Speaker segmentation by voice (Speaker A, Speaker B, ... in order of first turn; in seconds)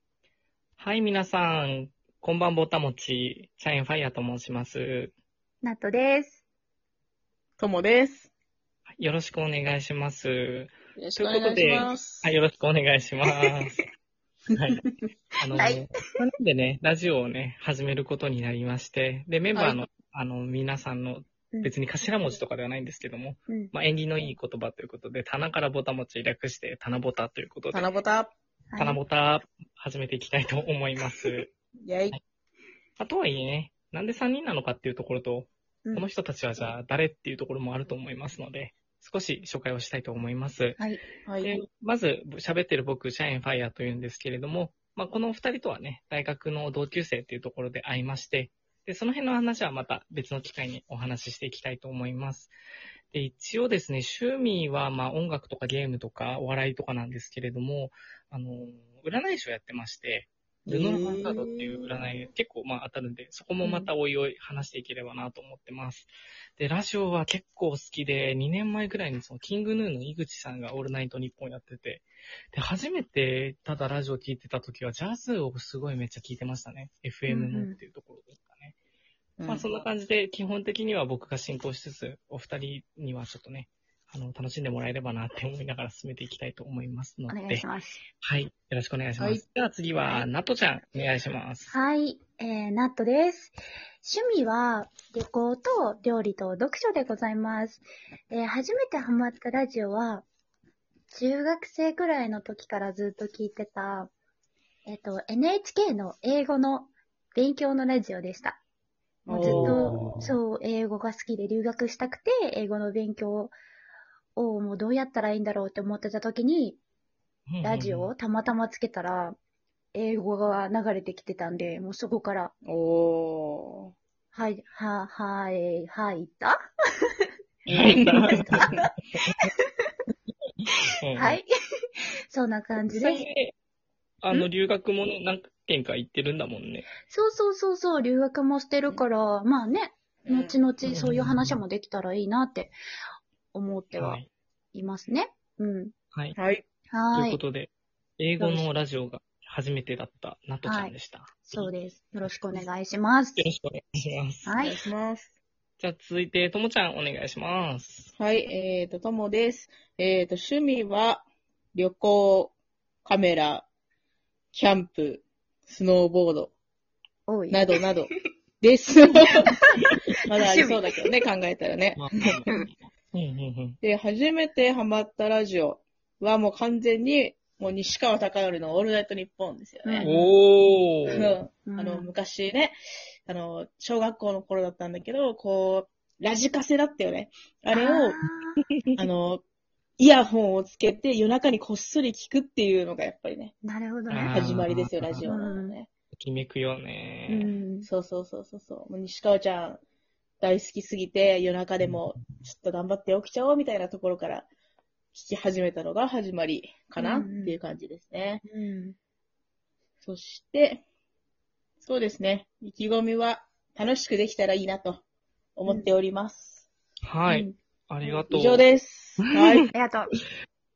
Speaker A: 0.8-5.1, 9.0-13.8, 14.6-14.8, 15.4-27.9, 28.8-31.5, 33.0-40.8, 41.4-52.5, 53.1-78.8, 79.5-87.6, 88.2-91.7, 109.4-110.4, 117.5-118.1, 127.7-128.7, 129.2-129.5, 130.7-131.4, 132.9-133.5, 134.2-136.9, 140.8-141.6, 144.0-144.3, 147.1-151.7, 153.4-154.5, 155.8-158.1, 171.9-173.8, 180.0-181.4, 194.1-195.2, 196.1-197.5, 217.0-218.7, 219.2-219.7
Speaker B: 5.6-6.4, 15.6-15.8, 28.7-29.0, 63.6-63.9, 77.3-77.8, 87.3-88.0, 91.7-100.2, 101.1-104.1, 104.8-108.6, 109.3-113.5, 114.3-116.8, 117.6-119.4, 119.9-122.5, 124.3-126.5, 127.9-128.8, 131.2-131.4, 132.3-133.2, 137.0-142.8, 143.5-144.2, 144.7-145.9, 146.9-147.4, 150.6-153.4, 154.4-154.8, 167.3-167.6, 170.4-171.1, 179.8-180.3, 181.7-182.1, 187.7-188.6, 193.6-194.4, 195.2-195.8, 197.3-197.9, 207.0-207.6, 208.4-208.9, 217.3-217.6, 219.7-220.1
Speaker C: 7.6-8.3, 11.0-12.3, 19.6-19.8, 27.7-28.3, 31.9-32.1, 41.2-41.6, 60.6-61.9, 79.4-79.7, 109.2-110.0, 122.7-123.9, 127.7-128.8, 140.2-140.6, 146.3-146.6, 154.6-155.3, 158.2-163.7, 164.5-166.5, 167.5-169.5, 170.3-172.1, 173.8-180.1, 181.1-182.8, 183.2-188.2, 188.9-189.4, 190.0-193.5, 194.3-195.9, 197.8-199.8, 200.4-204.5, 205.1-208.4, 210.0-210.8, 211.8-215.0, 215.6-216.7, 218.3-219.7